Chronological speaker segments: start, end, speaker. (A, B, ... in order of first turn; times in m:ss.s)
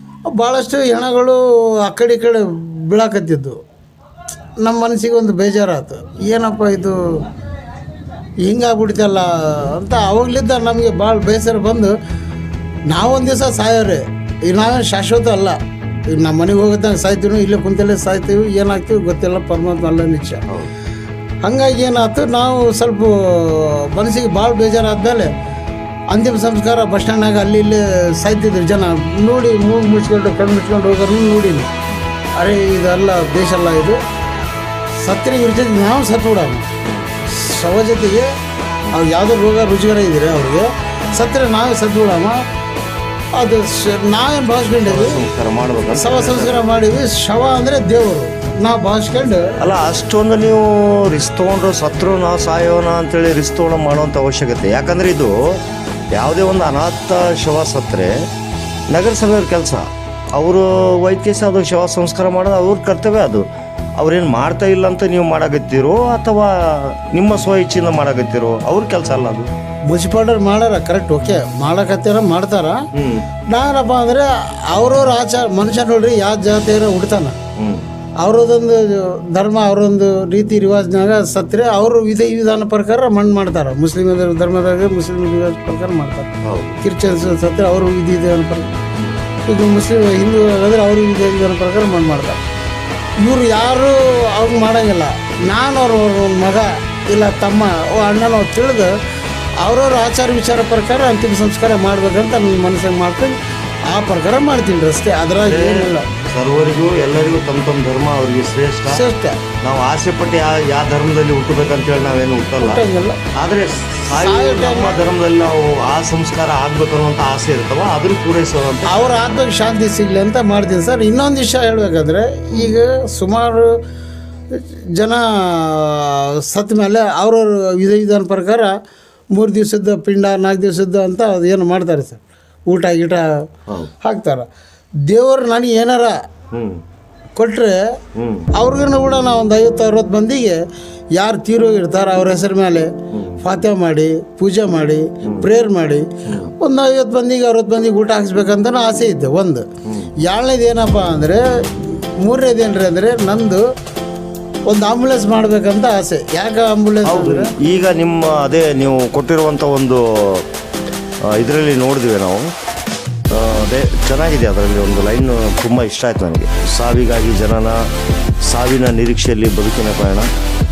0:00.3-0:03.6 A
0:04.6-0:07.2 A
0:08.4-0:11.9 A
0:12.9-0:20.4 A
0:21.4-0:25.3 A
0:26.1-0:31.7 A
0:32.4-0:34.0 A
0:35.0-0:36.7 A
0:36.8-0:37.1 B
0:37.3-0:38.3 A
0:38.9-0:42.4 A
0:43.4-0:45.2 A
0:44.8-0:46.6 B
0:45.9-0:49.6 A
0:49.6-0:55.6 B
0:56.1-0:58.3 B
0:58.9-1:03.4 B
1:04.0-1:09.5 B
1:09.9-1:12.8 A
1:12.9-1:13.3 B
1:13.5-1:17.4 A
1:17.6-1:17.8 B
1:18.2-1:28.7 A
1:26.4-1:26.8 B
1:29.4-1:32.4 A
1:33.2-1:38.9 A
1:39.6-1:43.4 A
1:43.9-1:46.1 A
1:45.4-1:49.0 B
1:48.9-1:49.4 A
1:49.6-1:52.8 B
1:52.6-1:53.2 A
1:53.3-1:59.4 B
1:54.1-1:55.0 A
1:58.8-2:03.8 A
2:04.5-2:08.7 A
2:09.3-2:13.3 A
2:14.0-2:14.5 A
2:15.1-2:16.2 A
2:16.5-2:16.8 B
2:17.4-2:17.8 A
2:18.1-2:18.5 B
2:18.5-2:20.6 A
2:21.2-2:29.7 A
2:23.1-2:23.4 B
2:26.2-2:26.5 B
2:29.8-2:30.1 B
2:30.2-2:33.6 A
2:34.7-2:37.5 A
2:37.0-2:40.5 B
2:41.2-2:42.5 B
2:43.3-2:47.9 B
2:48.4-2:50.3 B